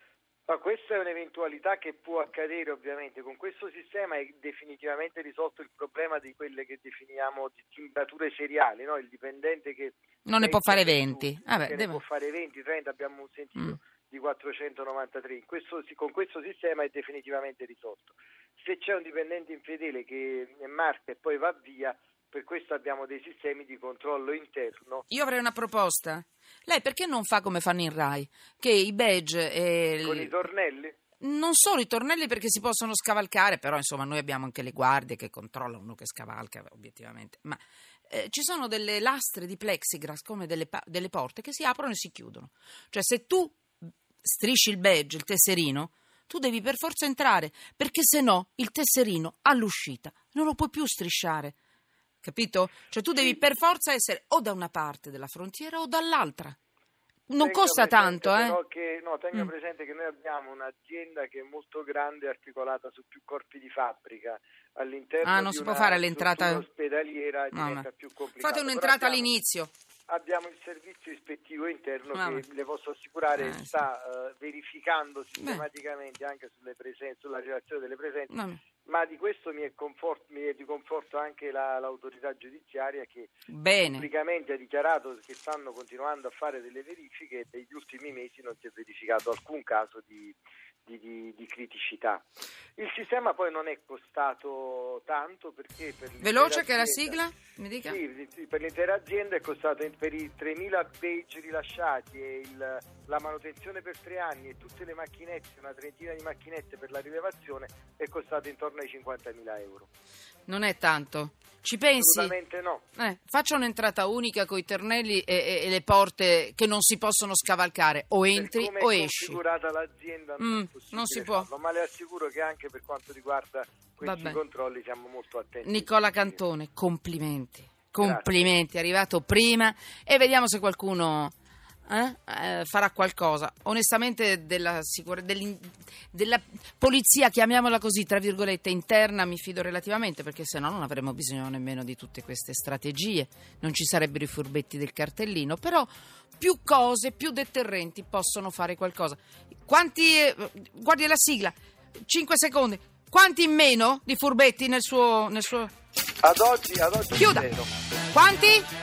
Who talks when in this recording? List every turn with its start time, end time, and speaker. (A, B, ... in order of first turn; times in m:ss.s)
0:00.5-0:25.0 A
0:10.3-0:12.0 B
0:25.1-0:30.4 B
0:30.0-0:31.0 A
0:31.2-0:43.6 B
0:44.2-0:51.6 B
0:52.2-0:56.6 B
0:57.3-0:58.6 B
0:57.4-1:09.3 A
1:05.2-1:06.6 B
1:07.5-1:07.8 B
1:08.4-1:09.7 B
1:10.1-1:18.3 A
1:12.2-1:12.4 B
1:13.4-1:13.9 B
1:15.4-1:15.6 B
1:18.3-1:18.6 B
1:18.8-1:23.3 A
1:23.5-1:24.1 B
1:23.9-1:32.3 A
1:32.8-1:37.2 A
1:36.2-1:38.0 B
1:37.8-1:49.9 A
1:50.5-1:52.3 B
1:52.0-1:52.8 A
1:53.0-1:59.4 B
1:58.3-2:06.4 A
2:00.4-2:01.5 B
2:04.0-2:04.4 B
2:05.6-2:11.4 B
2:08.0-2:08.6 A
2:11.9-2:35.7 B
2:36.2-2:37.7 A
2:37.2-2:37.5 B
2:38.1-2:38.7 B